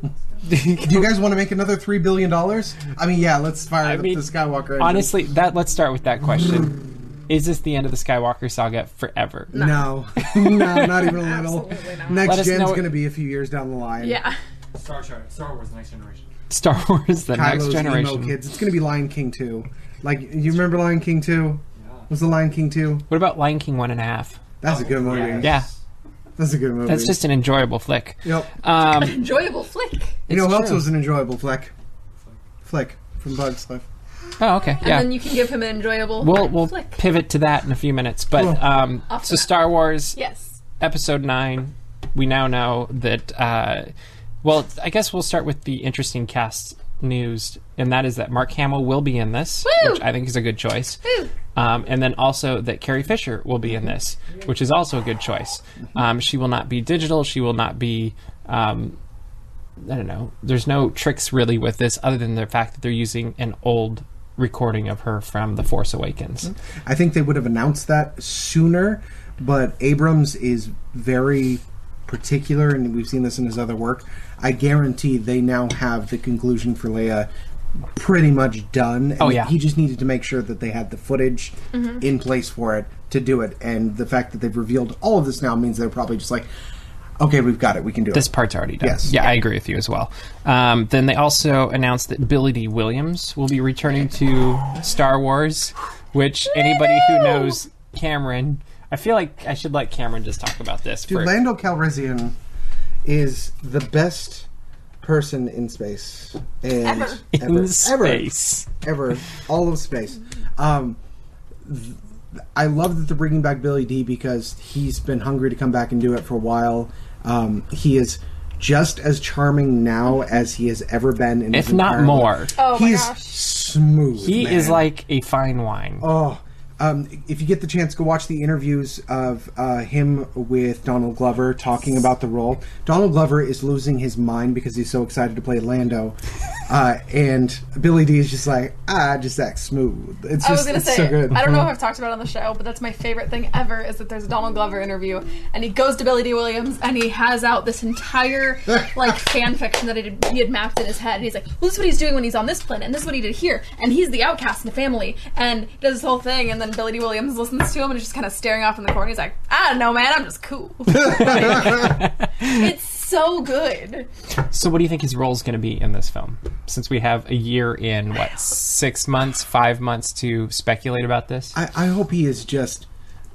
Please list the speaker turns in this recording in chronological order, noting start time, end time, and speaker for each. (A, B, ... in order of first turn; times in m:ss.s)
0:00.5-0:01.1 A
0:00.8-0:05.1 B
0:03.8-0:04.2 A
0:04.8-0:09.6 A
0:09.5-0:09.9 C
0:09.5-0:14.2 B
0:10.2-0:10.8 A
0:10.9-0:12.4 C
0:12.2-0:12.9 A
0:14.0-0:14.4 C
0:14.7-0:16.3 D
0:16.5-0:18.4 A
0:17.3-0:23.0 B
0:21.8-0:22.1 D
0:23.1-0:24.4 A
0:24.6-0:25.5 B
0:24.6-0:25.7 D
0:25.4-0:25.7 A
0:26.4-0:27.2 B
0:26.8-0:29.2 A
0:28.2-0:28.5 B
0:28.9-0:30.2 C
0:30.3-0:30.9 A
0:30.3-0:31.7 B
0:32.6-0:33.8 B
0:34.4-0:35.2 A
0:34.8-0:37.0 C
0:36.2-0:40.2 A
0:38.4-0:38.6 B
0:39.1-0:39.5 C
0:40.1-0:40.6 C
0:40.8-0:43.9 A
0:44.4-0:51.0 A
0:49.6-0:50.0 C
0:51.0-0:51.3 C
0:51.5-0:59.0 A
0:59.8-1:06.5 A
1:06.4-1:17.3 B
1:17.9-1:26.5 B
1:19.2-1:19.5 A
1:21.7-1:22.0 C
1:27.2-1:28.3 B
1:28.1-1:41.3 A
1:28.8-1:29.1 B
1:36.6-1:37.5 C
1:41.1-1:42.4 B
1:43.0-1:44.5 B
1:45.0-1:51.0 B
1:46.8-1:47.2 C
1:47.3-1:48.7 A
1:51.6-1:52.0 B
1:52.5-2:04.8 B
2:01.5-2:02.5 A
2:02.6-2:03.4 C
2:04.2-2:06.0 A
2:06.0-2:16.2 B
2:16.7-2:21.6 B
2:20.4-2:44.1 C
2:41.0-2:42.4 A
2:44.5-2:51.6 A
2:51.5-2:52.9 B